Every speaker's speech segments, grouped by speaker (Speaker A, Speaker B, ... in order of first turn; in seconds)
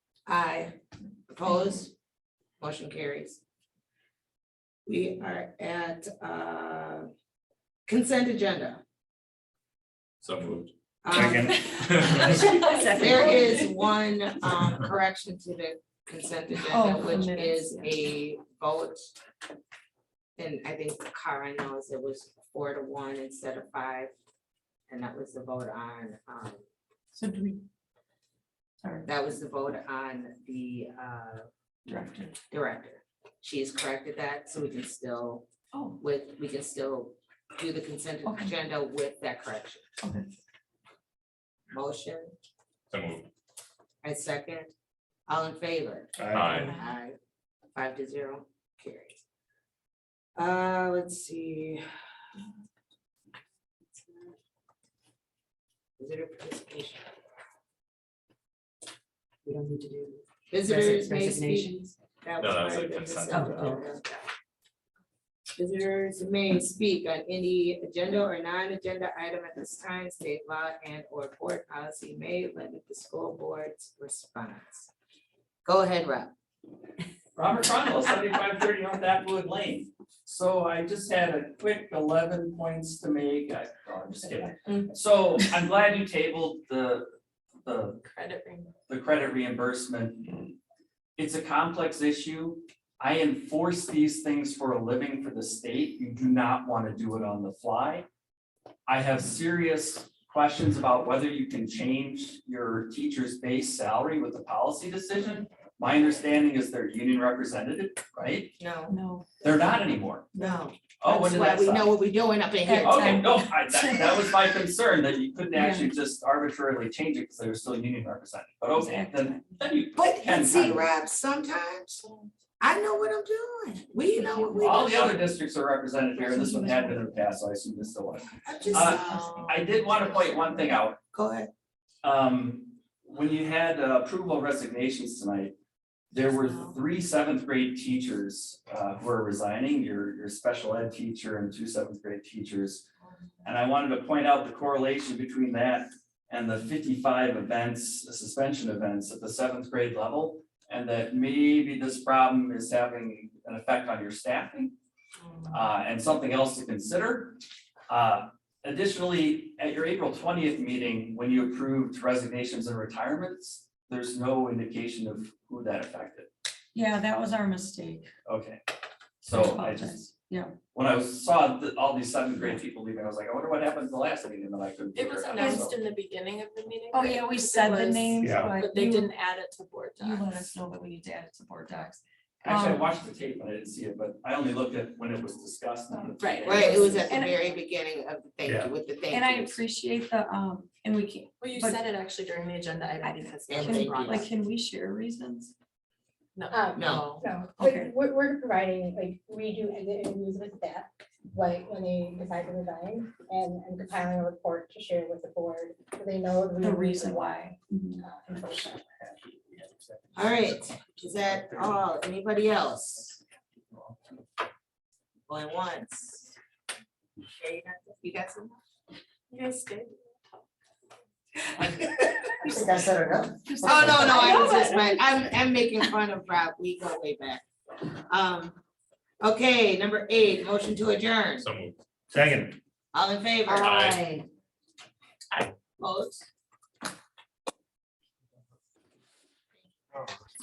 Speaker A: 0.2-0.8, 1.3-1.9, 2.6-3.4, 4.8-7.1, 7.9-8.8, 11.0-11.6, 12.8-19.0, 20.4-24.1, 24.9-26.6, 29.1-31.4, 32.5-35.5, 36.0-39.8, 41.7-42.3, 44.0-44.7, 45.3-47.2, 47.7-49.2, 50.4-51.8, 56.0-57.1, 60.5-64.2, 65.5-74.9, 75.6-76.3, 108.6-109.0, 110.3-113.2, 119.9-122.0, 122.6-125.3, 128.4-131.5, 136.4-136.8, 186.4-189.6, 193.5-194.3, 196.8-197.2, 210.1-213.2, 215.3-216.3, 217.2-218.6, 223.6-227.4, 228.1-228.6, 229.2-231.5, 232.9-233.8, 235.8-236.2
Speaker B: 10.2-10.7, 11.8-12.1, 42.9-43.3, 46.3-46.7, 62.4-63.8, 231.4-231.8, 233.6-234.0
Speaker C: 11.1-13.3, 46.2-46.7, 178.2-178.5, 232.1-232.6
Speaker D: 12.2-13.6, 16.7-18.0, 27.1-27.6, 28.8-29.1, 31.9-32.4, 35.7-36.0, 38.2-38.5, 46.6-46.8, 108.9-109.3, 110.4-110.6, 112.6-114.5, 115.5-116.0, 118.8-119.6, 124.1-124.7, 126.2-127.1, 128.8-129.4, 166.7-168.1, 169.3-170.6, 175.3-175.6, 176.9-179.1, 180.0-182.9, 187.1-187.4, 189.1-191.8, 193.0-195.5, 197.6-197.9, 206.6-208.0, 223.5-224.5
Speaker E: 12.3-12.8, 88.1-88.7, 155.2-155.5, 174.9-180.4, 186.2-187.2, 191.4-194.3, 196.3-197.2, 219.3-220.2, 223.8-224.8
Speaker F: 12.9-13.5, 59.5-61.9, 63.3-63.8
Speaker G: 77.3-88.0, 88.9-90.4, 91.2-98.0, 98.9-108.5, 109.4-110.3, 111.0-111.9, 112.7-120.8, 124.5-131.0, 132.0-135.5, 136.1-142.8, 143.4-154.7, 155.5-166.3, 168.2-168.6, 169.2-170.1, 170.7-175.8, 182.4-187.1
Speaker H: 196.5-208.8